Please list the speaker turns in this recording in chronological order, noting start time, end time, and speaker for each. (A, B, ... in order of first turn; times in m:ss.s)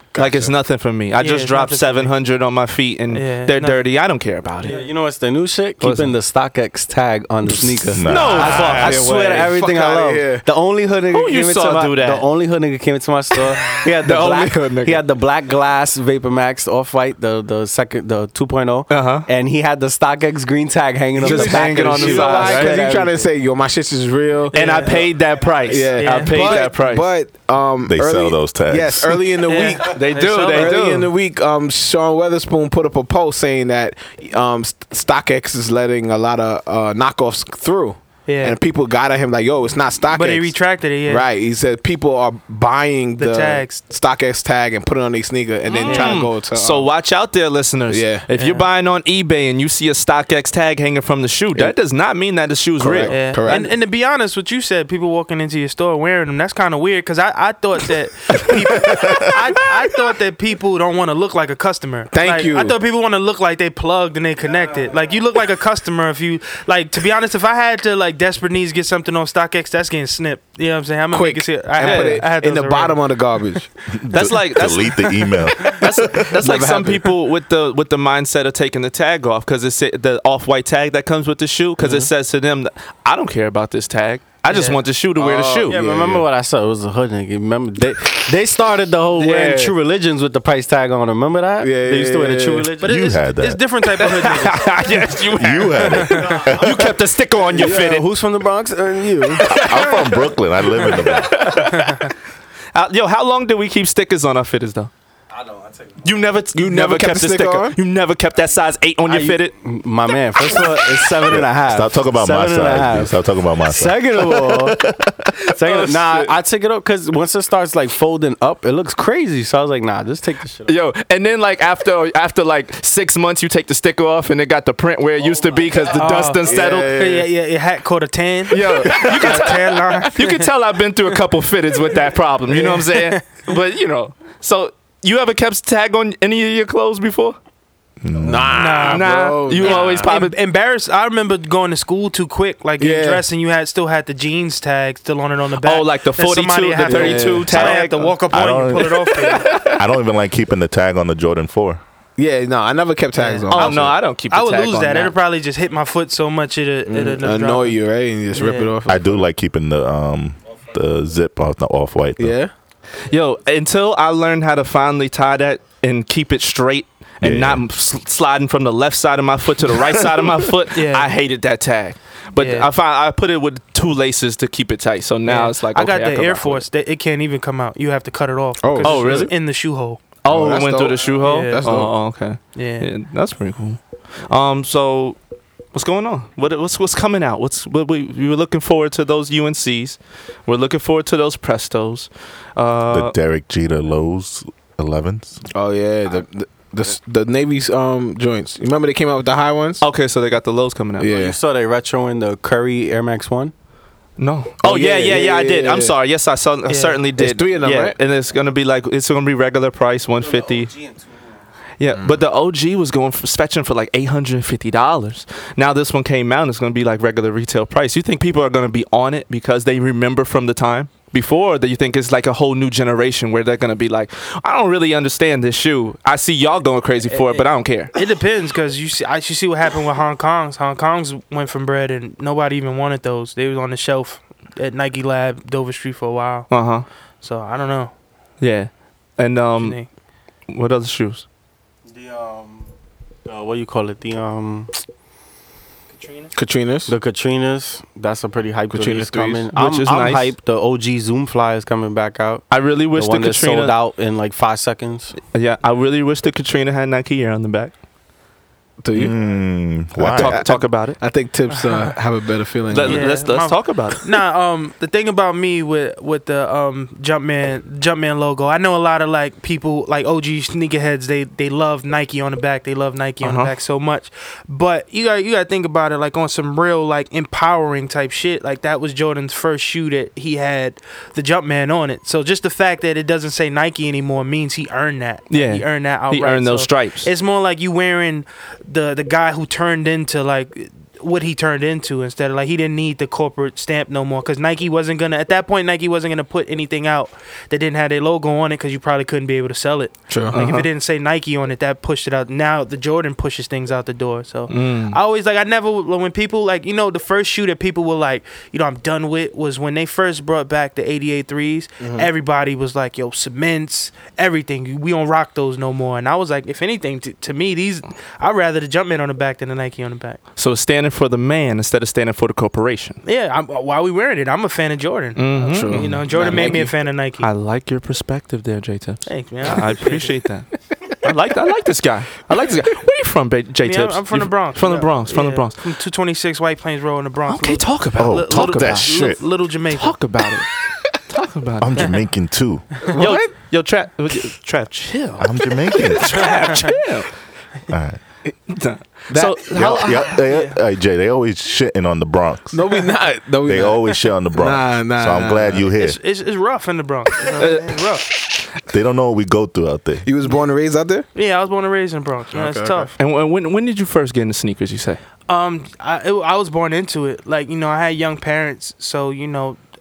0:00.1-0:00.5 A
0:00.2-0:04.8 B
0:01.2-0:02.1 C
0:03.1-0:03.8 C
0:04.6-0:23.3 D
0:04.6-0:04.9 C
0:05.8-0:06.1 B
0:07.6-0:09.5 B
0:07.9-0:08.6 E
0:08.3-0:08.8 C
0:08.5-0:10.4 A
0:11.1-0:12.3 B
0:13.8-0:15.0 B
0:18.9-0:19.3 B
0:21.2-0:22.9 B
0:21.2-0:25.1 A
0:24.5-0:25.0 C
0:24.5-0:27.1 B
0:25.6-0:46.9 A
0:26.0-0:26.7 C
0:27.8-0:29.3 E
0:29.5-0:30.7 C
0:29.8-0:31.1 B
0:38.2-0:38.6 C
0:40.1-0:41.3 C
0:43.2-0:43.8 C
0:45.7-0:53.5 B
0:45.8-0:46.3 C
0:47.9-0:48.2 A
0:48.3-0:48.7 C
0:52.8-0:53.7 A
0:53.1-1:13.0 C
0:58.9-0:59.2 A
1:02.1-1:02.8 A
1:11.1-1:13.9 A
1:11.8-1:12.2 B
1:13.9-1:16.3 E
1:14.1-1:25.8 B
1:15.8-1:17.1 A
1:21.8-1:22.1 A
1:24.4-1:24.8 C
1:25.2-1:26.3 A
1:25.7-1:32.9 D
1:29.1-1:29.7 B
1:31.6-1:32.7 A
1:32.8-1:34.7 C
1:32.8-1:33.6 E
1:34.0-1:38.1 B
1:35.3-1:36.9 E
1:37.5-1:39.5 D
1:37.5-1:37.9 A
1:39.4-1:40.1 B
1:39.5-1:41.7 E
1:40.7-1:42.1 B
1:41.7-1:42.1 C
1:42.7-1:44.9 B
1:45.3-1:46.0 D
1:46.0-1:49.5 B
1:46.5-1:47.8 A
1:49.0-1:54.8 D
1:51.3-1:55.3 E
1:55.5-1:56.3 B
1:55.5-2:00.7 D
2:00.6-2:07.1 B
2:05.9-2:10.5 C
2:06.4-2:07.3 A
2:08.5-2:17.4 B
2:08.6-2:09.5 A
2:12.5-2:13.2 C
2:18.0-2:18.8 E
2:18.2-2:20.1 A
2:18.5-2:29.5 C
2:18.9-2:20.4 B
2:22.8-2:23.2 A
2:25.6-2:28.2 B
2:26.9-2:27.8 A
2:28.3-2:31.8 E
2:29.3-2:29.8 A
2:32.2-2:34.0 A
2:33.2-2:37.8 C
2:33.5-2:35.1 B
2:36.8-2:39.3 A
2:38.3-2:38.7 C
2:38.9-2:42.4 E
2:42.2-2:42.5 A
2:43.1-2:56.6 B
2:47.2-2:47.6 E
2:50.7-2:51.1 C
2:52.4-2:52.7 C
2:55.2-3:00.0 C
2:58.6-2:59.3 A
2:58.8-2:59.3 B
2:58.8-2:59.3 D
3:00.2-3:05.2 B
3:00.3-3:01.9 A
3:01.2-3:01.6 C
3:02.5-3:02.9 C
3:05.7-3:13.1 B
3:12.9-3:15.4 E
3:15.5-3:19.8 A
3:19.8-3:21.1 B
3:21.0-3:21.4 A
3:21.0-3:23.5 D
3:24.2-3:30.7 B
3:24.6-3:25.9 A
3:26.7-3:27.0 C
3:27.2-3:27.9 A
3:30.2-3:31.2 D
3:31.8-3:47.9 B
3:31.9-3:32.2 A
3:47.1-3:56.5 C
3:56.5-3:56.8 B
3:57.2-3:57.9 C
3:58.4-3:59.8 B
3:59.6-3:59.9 C
4:00.5-4:01.2 B
4:01.9-4:02.7 D
4:03.2-4:04.8 D
4:05.9-4:06.3 C
4:06.3-4:06.9 A
4:06.9-4:15.2 D
4:08.7-4:09.5 A
4:09.5-4:10.3 B
4:12.5-4:13.7 B
4:15.3-4:17.7 B
4:18.8-4:19.3 A
4:18.9-4:20.4 E
4:20.0-4:23.2 A
4:20.1-4:21.0 B
4:22.7-4:24.0 B
4:22.8-5:20.2 C
4:33.2-4:33.5 B
4:45.3-4:47.1 B
5:00.1-5:00.4 A
5:00.3-5:00.7 B
5:04.5-5:05.0 B
5:11.8-5:12.1 A
5:20.4-5:23.0 B
5:23.0-5:27.3 C
5:25.2-5:35.6 B
5:25.5-5:26.7 A
5:29.0-5:30.1 C
5:33.6-5:40.0 C
5:37.3-5:39.2 B
5:38.0-5:39.2 E
5:39.7-5:40.5 B
5:41.1-5:42.0 B
5:41.6-5:42.8 E
5:42.9-5:47.1 B
5:42.9-5:43.2 A
5:45.2-5:46.5 E
5:46.4-5:46.6 C
5:47.7-5:48.0 E
5:48.5-5:50.2 B
5:49.1-5:49.4 A
5:49.5-5:52.6 E
5:50.3-5:50.6 C
5:52.5-5:55.7 A
5:53.4-5:56.0 E
5:55.8-5:58.0 C
5:57.4-5:57.7 B
5:58.7-6:00.0 E
6:00.0-6:01.1 A
6:01.1-6:02.9 C
6:02.3-6:02.9 A
6:03.0-6:05.0 B
6:05.3-6:09.6 C